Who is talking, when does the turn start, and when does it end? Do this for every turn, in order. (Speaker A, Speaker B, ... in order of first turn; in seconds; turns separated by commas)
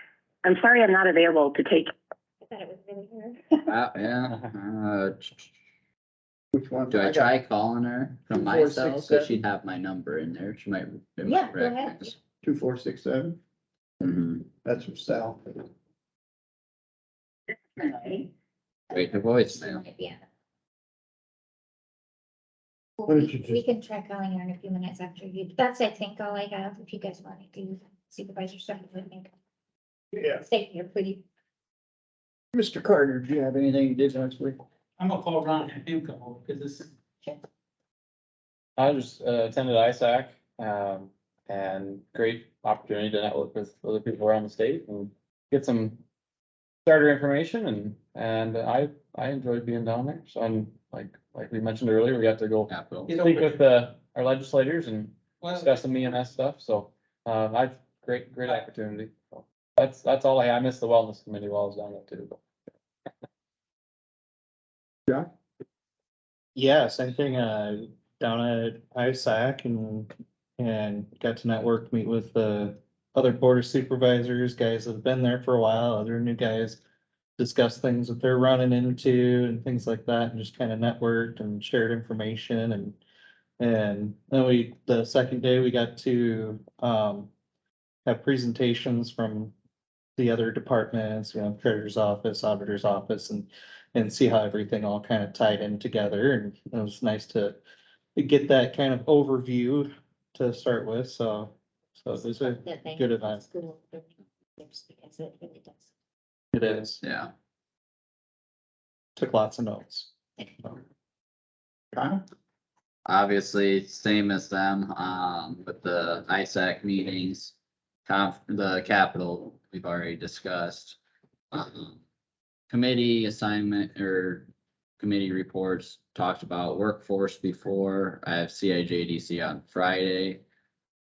Speaker A: 0.4-1.9, Speaker B: 2.4-3.6, Speaker C: 3.7-5.5, Speaker D: 6.5-7.4, Speaker C: 6.9-12.2, Speaker D: 8.3-9.4, Speaker B: 11.2-12.2, Speaker D: 12.4-13.4, Speaker C: 14.0-14.4, Speaker D: 14.0-15.5, Speaker A: 17.8-18.3, Speaker C: 18.9-19.8, Speaker B: 18.9-20.2, Speaker B: 23.0-29.3, Speaker D: 23.1-23.6, Speaker B: 30.2-31.2, Speaker D: 32.5-34.6, Speaker E: 35.0-36.6, Speaker F: 38.8-46.0, Speaker F: 46.9-62.4, Speaker C: 52.7-53.3, Speaker E: 53.1-53.4, Speaker E: 55.4-55.9, Speaker G: 66.5-76.8, Speaker G: 77.4-83.0, Speaker G: 83.6-87.3, Speaker G: 88.1-89.5, Speaker G: 90.2-97.6, Speaker G: 98.2-103.4, Speaker B: 102.2-105.9, Speaker G: 106.5-107.0, Speaker C: 107.0-107.3, Speaker G: 109.2-110.8, Speaker C: 113.1-121.0, Speaker C: 121.5-122.0, Speaker C: 122.7-130.4